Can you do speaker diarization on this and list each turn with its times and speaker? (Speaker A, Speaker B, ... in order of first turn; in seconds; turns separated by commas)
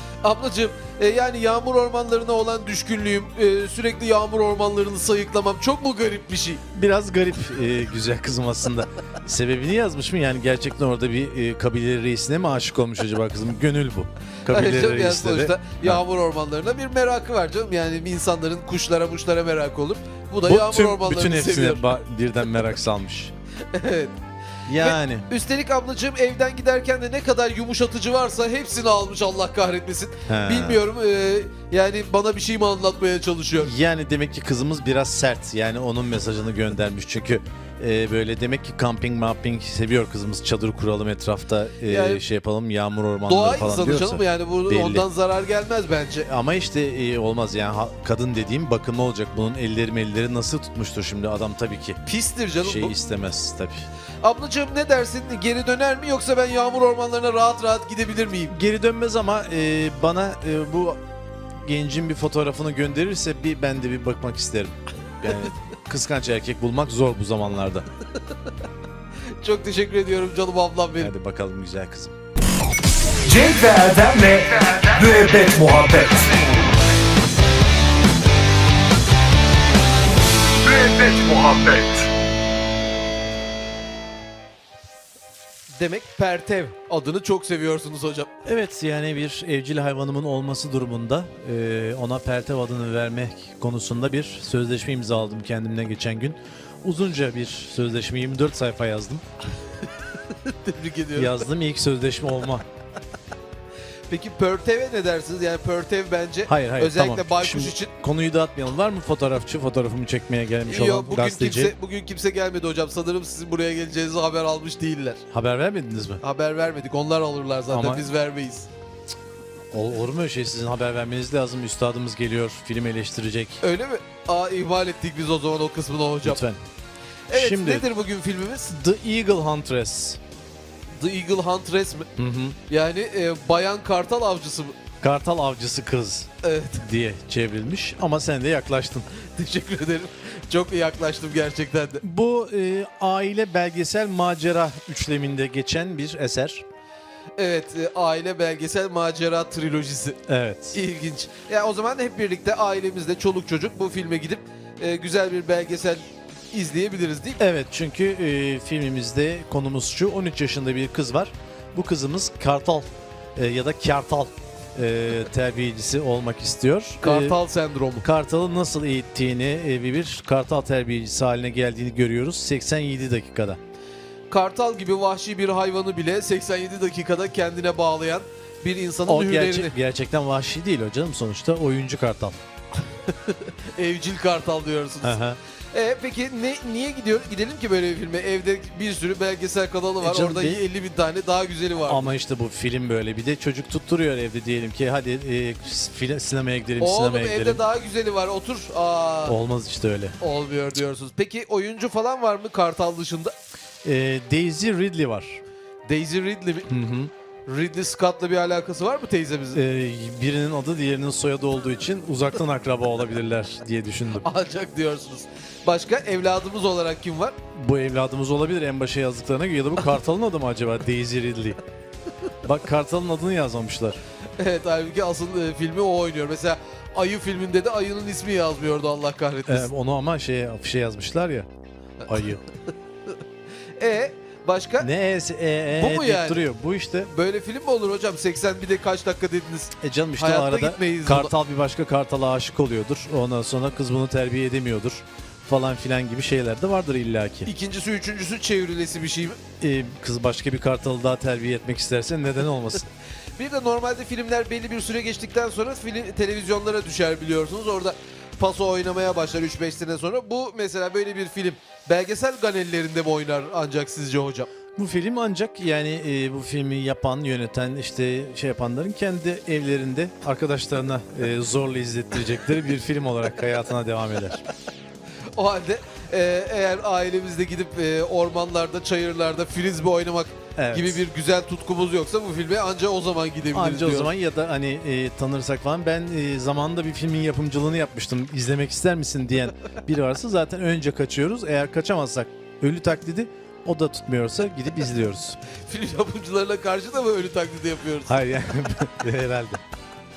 Speaker A: 0.2-6.6, Speaker B: 6.7-16.0, Speaker A: 14.5-22.0, Speaker B: 20.4-23.3, Speaker A: 23.7-24.1, Speaker B: 24.7-25.3, Speaker A: 24.8-33.7, Speaker B: 30.3-30.8, Speaker B: 33.6-45.0, Speaker A: 41.9-42.2, Speaker A: 43.3-46.3, Speaker B: 46.2-52.0, Speaker A: 52.0-52.9, Speaker B: 52.6-53.9, Speaker A: 54.2-58.5, Speaker B: 58.5-61.0, Speaker B: 61.6-67.9, Speaker A: 69.4-71.1, Speaker B: 71.0-72.1, Speaker C: 73.2-76.5, Speaker C: 80.6-82.1, Speaker A: 85.7-88.4, Speaker B: 88.4-99.2, Speaker A: 100.2-101.5, Speaker B: 101.2-102.7, Speaker A: 104.1-107.9, Speaker B: 106.5-111.7, Speaker A: 110.7-115.2, Speaker B: 115.3-116.2, Speaker A: 116.2-118.7, Speaker B: 117.7-118.1, Speaker B: 119.7-123.6, Speaker A: 123.6-126.4, Speaker B: 126.2-126.6, Speaker A: 127.3-128.7, Speaker B: 127.3-127.9, Speaker B: 128.7-130.2, Speaker A: 130.9-132.1, Speaker B: 132.2-132.6, Speaker A: 132.7-134.8, Speaker B: 135.0-139.1, Speaker A: 136.4-136.8, Speaker A: 139.1-142.0, Speaker B: 142.0-146.6, Speaker A: 147.4-150.2, Speaker B: 150.3-150.8, Speaker A: 150.7-157.4, Speaker B: 157.4-167.4, Speaker A: 167.0-168.1, Speaker B: 168.0-173.6, Speaker A: 174.3-179.7, Speaker B: 179.1-182.4, Speaker A: 183.1-185.2, Speaker B: 185.0-185.4, Speaker A: 185.7-192.1, Speaker B: 190.0-190.6, Speaker B: 191.8-197.6, Speaker A: 196.8-199.3, Speaker B: 199.2-200.2, Speaker A: 200.2-203.3, Speaker B: 203.8-205.4, Speaker A: 205.8-206.7, Speaker B: 206.7-207.1, Speaker A: 207.5-209.6, Speaker B: 209.5-214.2, Speaker A: 214.2-217.3, Speaker B: 217.5-221.6, Speaker B: 222.4-224.0, Speaker A: 224.4-229.7, Speaker B: 229.5-231.5, Speaker B: 232.1-232.4, Speaker A: 233.8-234.9, Speaker B: 234.8-237.1, Speaker A: 235.8-236.4, Speaker A: 237.1-241.3, Speaker B: 239.8-247.5, Speaker A: 247.4-249.4, Speaker B: 249.6-252.9, Speaker A: 253.4-264.5, Speaker B: 264.7-274.4, Speaker A: 275.3-284.1, Speaker B: 280.6-281.0, Speaker B: 283.5-295.4, Speaker A: 295.6-298.2, Speaker B: 298.1-299.6